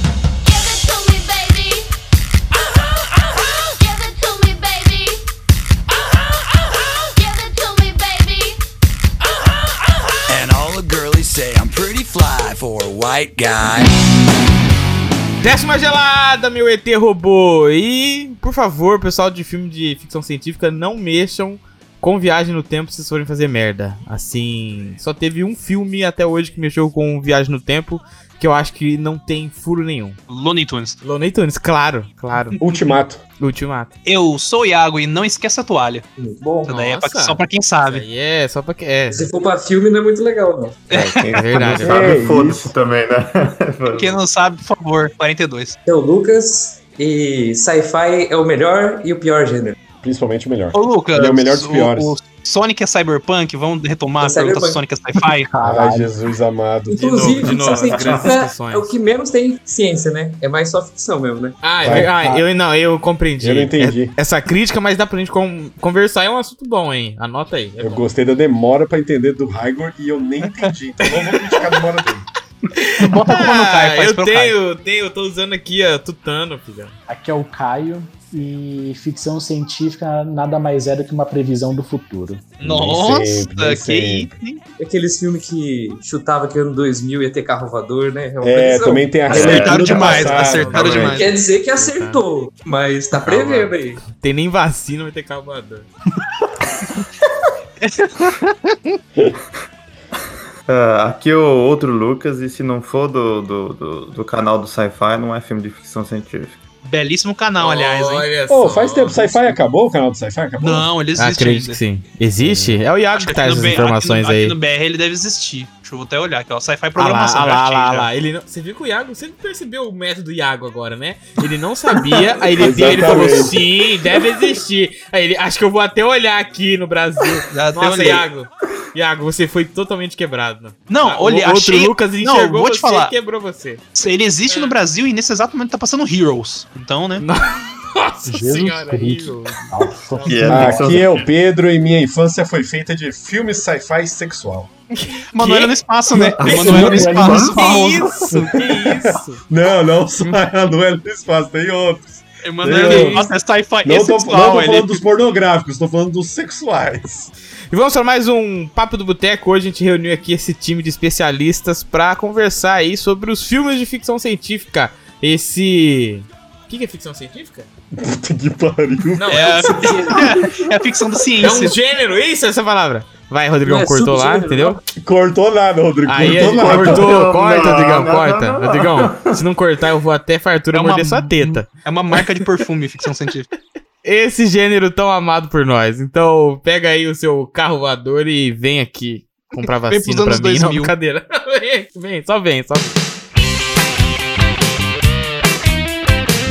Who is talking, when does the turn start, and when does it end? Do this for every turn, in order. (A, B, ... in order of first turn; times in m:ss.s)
0:00.9-0:01.8 A
0:03.9-0:05.1 A
0:07.2-0:08.5 A
0:10.3-0:13.9 B
0:15.4-0:30.2 C
0:30.3-0:31.0 D
0:31.0-0:32.6 C
0:32.3-0:32.6 D
0:32.6-0:33.2 E
0:33.4-0:33.9 C
0:34.0-0:36.0 D
0:36.2-0:36.7 F
0:36.6-0:38.0 D
0:36.7-0:39.3 C
0:39.1-0:40.8 F
0:40.9-0:41.3 D
0:40.9-0:44.2 G
0:41.3-0:42.2 C
0:41.8-0:42.7 E
0:43.9-0:45.8 D
0:45.9-0:49.8 F
0:50.0-0:52.1 E
0:50.7-0:55.5 D
0:54.2-0:54.8 F
0:55.4-0:56.1 H
0:55.6-0:58.2 E
0:56.9-1:01.6 F
0:56.9-0:58.9 C
1:01.6-1:08.1 C
1:01.8-1:02.1 E
1:01.9-1:02.4 H
1:03.4-1:04.2 E
1:07.8-1:12.2 E
1:10.4-1:11.8 D
1:12.7-1:16.9 C
1:13.0-1:13.6 H
1:13.3-1:14.5 D
1:17.1-1:22.6 H
1:22.6-1:24.6 D
1:22.6-1:24.3 E
1:24.8-1:29.6 F
1:28.4-1:30.8 E
1:29.3-1:29.7 G
1:29.3-1:31.4 D
1:29.5-1:32.2 C
1:30.7-1:31.2 G
1:31.1-1:34.0 F
1:33.2-1:35.9 C
1:37.8-1:38.4 D
1:40.7-1:46.6 G
1:46.8-1:48.3 D
1:47.6-1:49.6 C
1:48.5-1:50.9 E
1:50.6-1:51.8 D
1:51.2-1:54.6 C
1:52.4-1:52.8 E
1:53.2-1:58.1 D
1:57.0-2:13.8 C
2:02.5-2:03.6 E
2:07.5-2:08.2 D
2:10.9-2:13.1 D
2:14.0-2:17.2 D
2:14.5-2:14.8 C
2:17.2-2:20.9 C
2:18.3-2:21.0 H
2:20.2-2:21.3 G
2:20.4-2:24.7 E
2:25.0-2:25.8 C
2:25.3-2:28.1 D
2:26.1-2:28.4 H
2:26.4-2:27.6 G
2:26.7-2:29.4 C
2:28.7-2:33.3 E
2:32.4-2:35.0 D
2:32.8-2:33.3 C
2:33.8-2:37.3 E
2:37.7-2:47.7 C
2:47.9-2:50.2 E
2:49.1-2:49.8 C
2:49.3-2:51.8 D
2:51.4-2:54.8 C
2:53.6-2:54.8 F
2:54.9-2:57.2 E
2:56.0-3:01.6 C
2:56.2-2:59.4 G
3:00.7-3:03.5 D
3:04.0-3:13.0 C
3:09.6-3:10.9 D